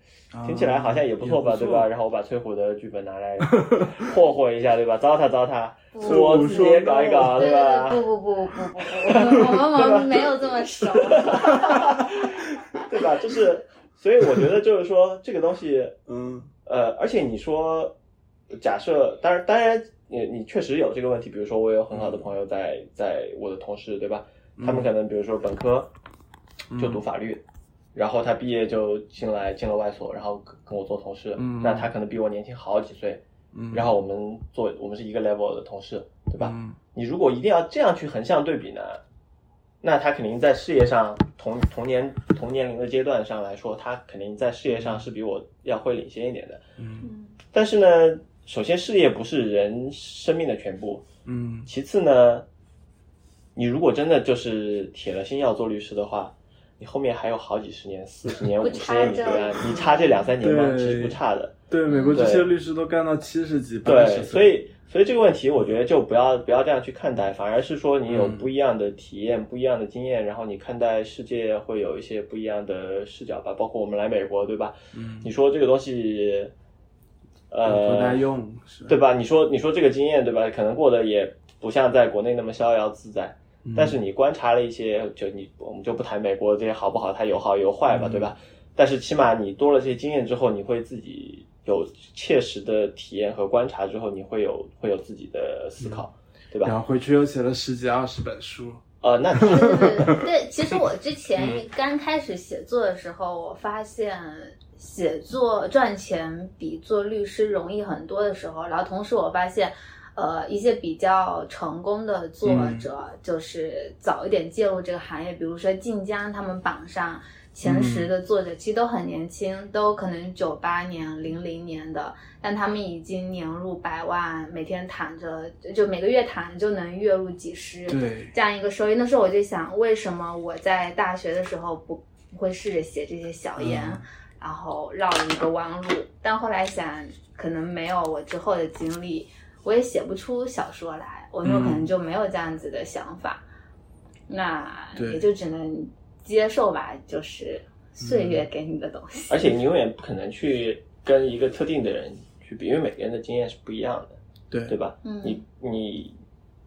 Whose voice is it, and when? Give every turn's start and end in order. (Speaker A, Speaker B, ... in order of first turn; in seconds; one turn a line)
Speaker A: 0.3-1.9
Speaker B: 0.4-8.0
Speaker A: 3.5-3.9
Speaker C: 5.9-6.6
Speaker A: 6.0-7.5
Speaker C: 7.2-12.0
Speaker B: 8.8-15.9
Speaker A: 16.1-16.5
Speaker B: 16.6-17.9
Speaker B: 18.5-25.9
Speaker A: 21.9-22.3
Speaker A: 24.6-24.9
Speaker A: 26.7-27.0
Speaker B: 26.7-27.4
Speaker B: 27.9-39.0
Speaker A: 31.4-31.9
Speaker A: 33.5-33.9
Speaker A: 36.4-36.8
Speaker B: 39.8-46.6
Speaker A: 44.7-45.0
Speaker A: 46.8-47.1
Speaker C: 47.0-47.3
Speaker B: 47.5-51.1
Speaker A: 51.2-51.7
Speaker B: 51.6-52.5
Speaker B: 53.5-61.5
Speaker C: 58.6-60.2
Speaker A: 60.4-61.2
Speaker A: 61.7-64.5
Speaker C: 61.9-62.2
Speaker B: 62.1-62.5
Speaker B: 63.8-76.5
Speaker A: 68.1-68.5
Speaker A: 74.9-75.3
Speaker B: 77.5-78.2
Speaker A: 77.6-79.0
Speaker B: 78.9-96.7
Speaker A: 83.6-84.0
Speaker A: 87.9-88.3
Speaker A: 96.6-98.8
Speaker B: 99.0-100.1
Speaker A: 99.3-100.2
Speaker C: 99.4-143.4
Speaker A: 112.4-112.9
Speaker A: 117.6-118.1
Speaker A: 127.9-128.3
Speaker A: 133.6-134.0
Speaker A: 141.4-141.9
Speaker C: 144.3-149.5
Speaker A: 144.9-145.2
Speaker A: 148.0-148.4
Speaker B: 149.3-156.1
Speaker C: 155.0-155.4